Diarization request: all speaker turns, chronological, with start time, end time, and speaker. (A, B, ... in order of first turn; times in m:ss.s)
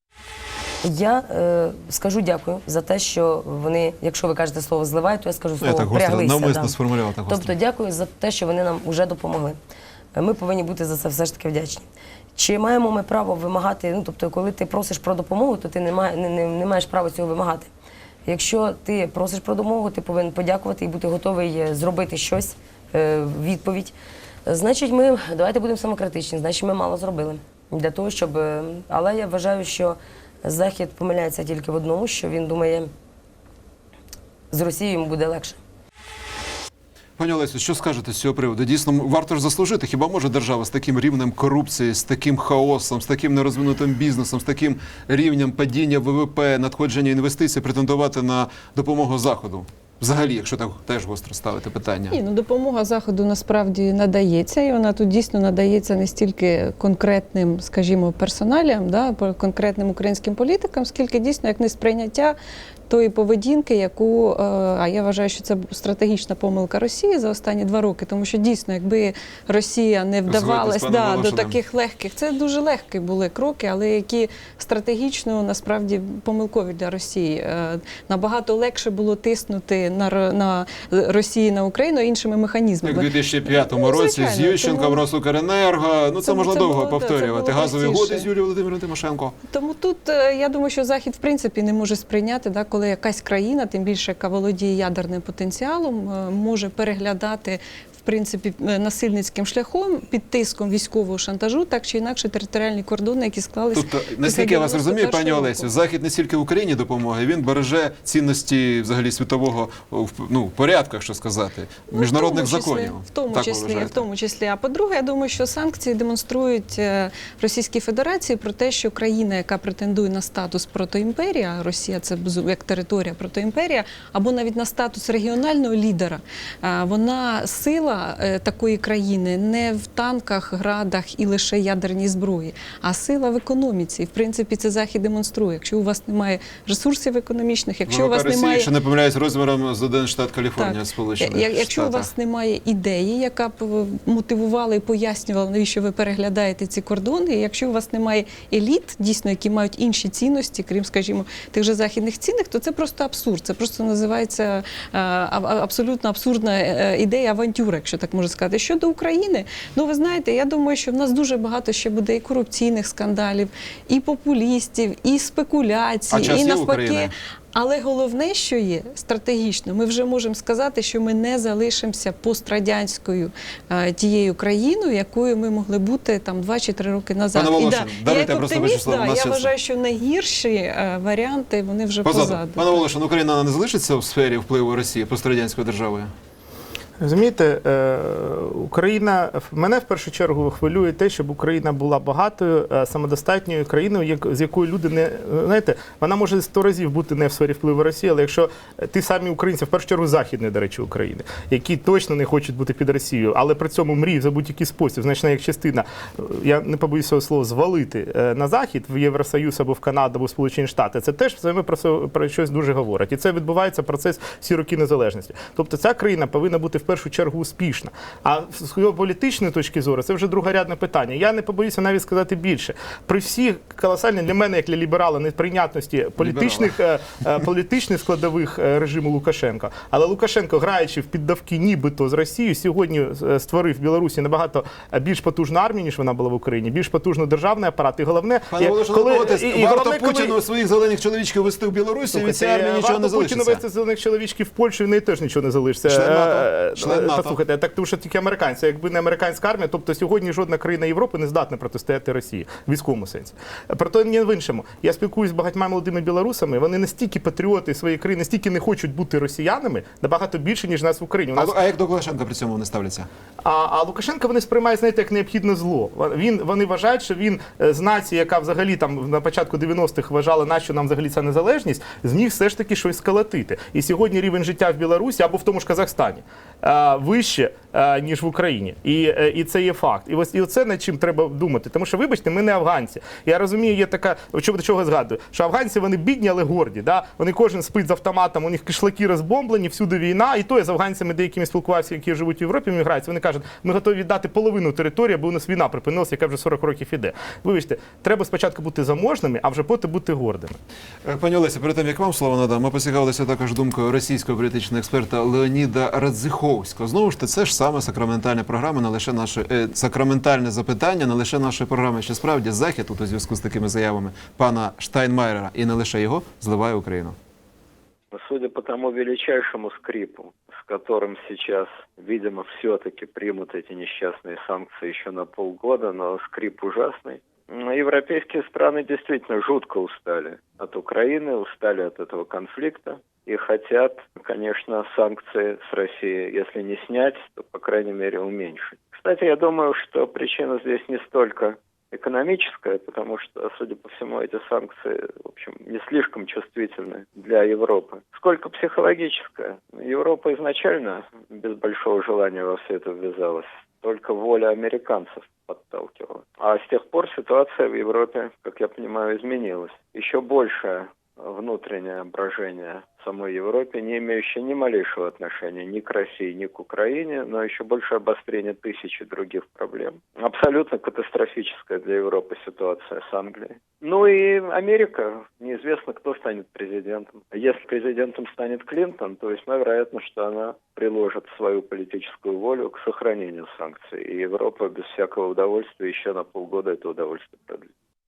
0:00.8-0:06.8 A
0:05.6-0:07.5 B
0:07.3-0:09.6 A
0:10.2-0:17.7 A
0:18.2-0:23.9 A
0:24.5-0:32.9 A
0:34.5-0:35.6 A
0:37.2-0:52.2 B
0:52.1-1:02.4 C
1:02.9-1:25.0 C
1:10.3-1:11.6 B
1:22.8-1:29.4 B
1:26.2-1:28.3 C
1:29.5-1:45.7 C
1:43.7-1:54.1 B
1:51.9-2:18.7 C
2:17.9-2:22.1 B
2:20.6-3:02.9 C
2:46.1-2:47.1 B
2:57.3-2:59.5 B
3:02.0-3:06.1 B
3:07.0-4:00.4 D
3:46.2-3:46.8 B
3:58.5-4:03.6 B
4:02.1-4:21.6 D
4:05.9-4:07.4 B
4:21.4-4:23.1 B
4:23.4-5:00.6 D
5:01.0-5:17.2 B
5:18.1-6:27.7 E